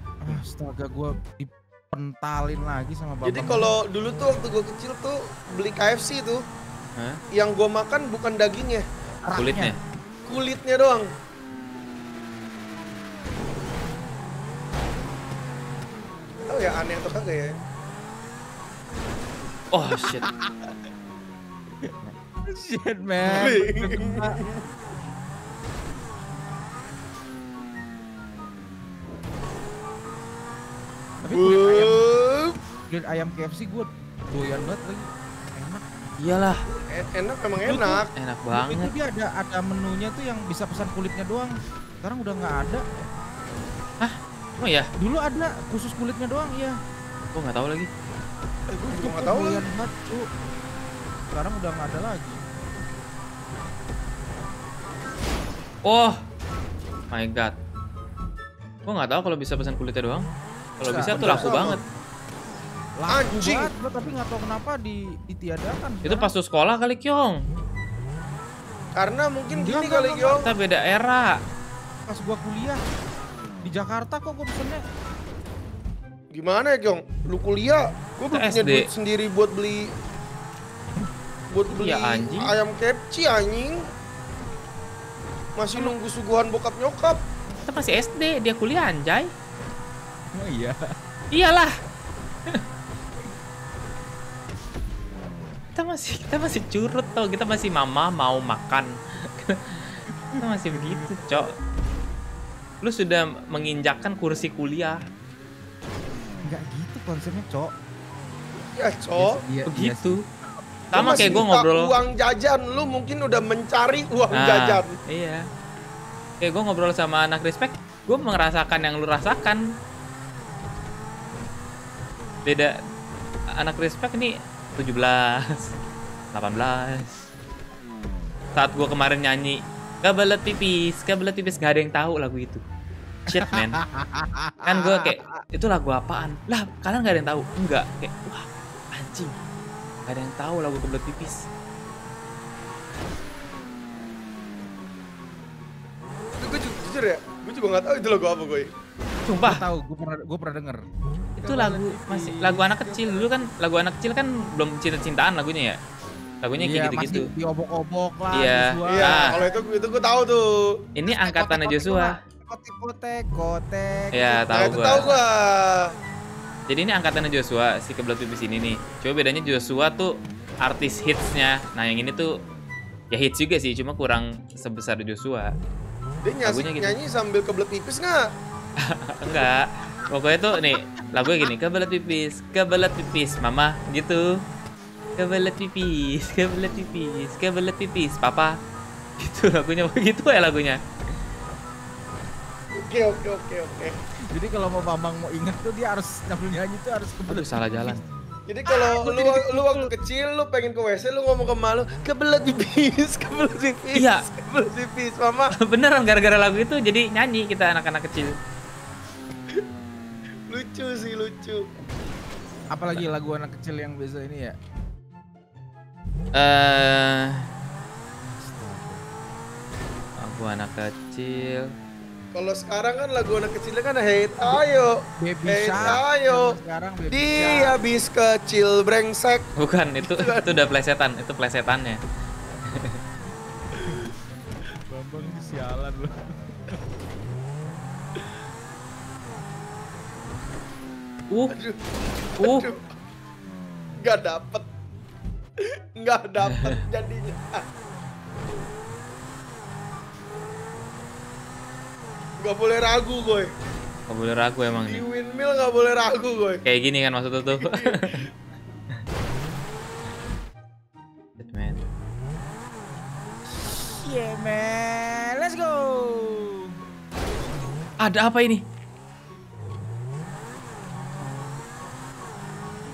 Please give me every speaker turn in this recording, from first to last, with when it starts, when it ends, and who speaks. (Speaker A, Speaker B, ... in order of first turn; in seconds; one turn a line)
Speaker A: 0.2-3.7
Speaker B: 3.2-6.4
Speaker B: 7.3-8.8
Speaker A: 9.2-9.7
Speaker C: 9.3-9.8
Speaker B: 10.3-11.1
Speaker B: 16.5-17.5
Speaker C: 19.7-20.2
Speaker A: 20.0-20.6
Speaker A: 22.5-24.4
Speaker B: 23.3-24.6
Speaker A: 31.2-32.0
Speaker B: 31.3-32.5
Speaker A: 32.9-35.9
Speaker C: 36.2-36.6
Speaker B: 36.9-38.1
Speaker A: 37.6-38.0
Speaker C: 38.1-38.9
Speaker A: 38.5-42.8
Speaker C: 44.0-44.9
Speaker A: 45.0-46.7
Speaker C: 47.3-47.9
Speaker B: 48.7-49.6
Speaker A: 48.9-50.2
Speaker A: 51.3-52.4
Speaker C: 55.8-56.2
Speaker C: 57.1-57.5
Speaker C: 58.9-60.3
Speaker C: 60.8-61.8
Speaker A: 60.8-61.8
Speaker B: 61.0-61.8
Speaker A: 63.0-66.3
Speaker B: 63.1-63.7
Speaker C: 66.0-67.4
Speaker B: 69.0-70.4
Speaker A: 69.5-70.5
Speaker C: 70.3-71.3
Speaker A: 72.1-72.8
Speaker A: 73.6-74.8
Speaker B: 76.3-79.8
Speaker C: 78.3-78.9
Speaker B: 81.5-83.8
Speaker C: 81.7-82.5
Speaker B: 85.6-87.2
Speaker C: 87.7-89.3
Speaker A: 90.3-90.8
Speaker C: 91.3-91.7
Speaker C: 95.8-101.5
Speaker A: 100.3-101.1
Speaker C: 102.8-105.0
Speaker A: 106.4-107.7
Speaker B: 108.7-109.3
Speaker A: 109.2-110.2
Speaker C: 109.7-110.2
Speaker A: 110.9-111.5
Speaker C: 110.9-111.9
Speaker B: 110.9-114.9
Speaker C: 114.3-115.4
Speaker C: 116.4-119.6
Speaker C: 122.4-122.7
Speaker C: 123.5-125.7
Speaker C: 126.3-127.2
Speaker C: 128.5-132.6
Speaker C: 133.3-133.8
Speaker A: 133.3-135.4
Speaker C: 134.6-139.3
Speaker C: 140.1-141.4
Speaker B: 146.4-148.7
Speaker C: 149.2-149.6
Speaker A: 149.4-150.8
Speaker A: 151.4-152.8
Speaker C: 151.4-155.8
Speaker B: 152.8-153.3
Speaker C: 156.4-157.3
Speaker A: 156.6-159.5
Speaker C: 158.3-159.3
Speaker B: 158.9-160.5
Speaker C: 160.9-162.1
Speaker A: 161.1-165.2
Speaker C: 164.1-165.2
Speaker B: 164.5-165.8
Speaker C: 166.7-170.1
Speaker C: 170.6-172.3
Speaker C: 173.1-175.5
Speaker B: 176.2-178.2
Speaker C: 176.4-177.0
Speaker C: 178.8-184.2
Speaker A: 181.2-181.5
Speaker C: 185.2-188.5
Speaker C: 189.2-190.8
Speaker B: 192.8-193.9
Speaker A: 194.3-198.1
Speaker C: 197.3-198.0
Speaker B: 198.5-205.5
Speaker A: 198.7-199.9
Speaker C: 203.9-204.2
Speaker C: 205.6-208.3
Speaker B: 210.5-211.6
Speaker A: 212.7-214.5
Speaker C: 216.4-217.4
Speaker A: 218.3-219.0
Speaker C: 220.2-221.7
Speaker B: 222.3-224.9
Speaker A: 225.2-227.8
Speaker B: 225.5-226.5
Speaker C: 225.8-226.0
Speaker B: 227.1-229.4
Speaker C: 229.6-232.0
Speaker B: 230.0-230.5
Speaker A: 233.8-234.1
Speaker A: 234.9-236.8
Speaker B: 241.5-241.8
Speaker B: 242.3-242.8
Speaker C: 242.4-242.7
Speaker B: 244.0-244.7
Speaker B: 246.0-247.6
Speaker B: 252.4-253.5
Speaker C: 254.1-255.0
Speaker B: 254.9-256.6
Speaker C: 256.6-258.3
Speaker B: 257.5-258.2
Speaker C: 261.4-261.8
Speaker A: 263.5-266.7
Speaker C: 268.0-268.6
Speaker C: 271.2-271.6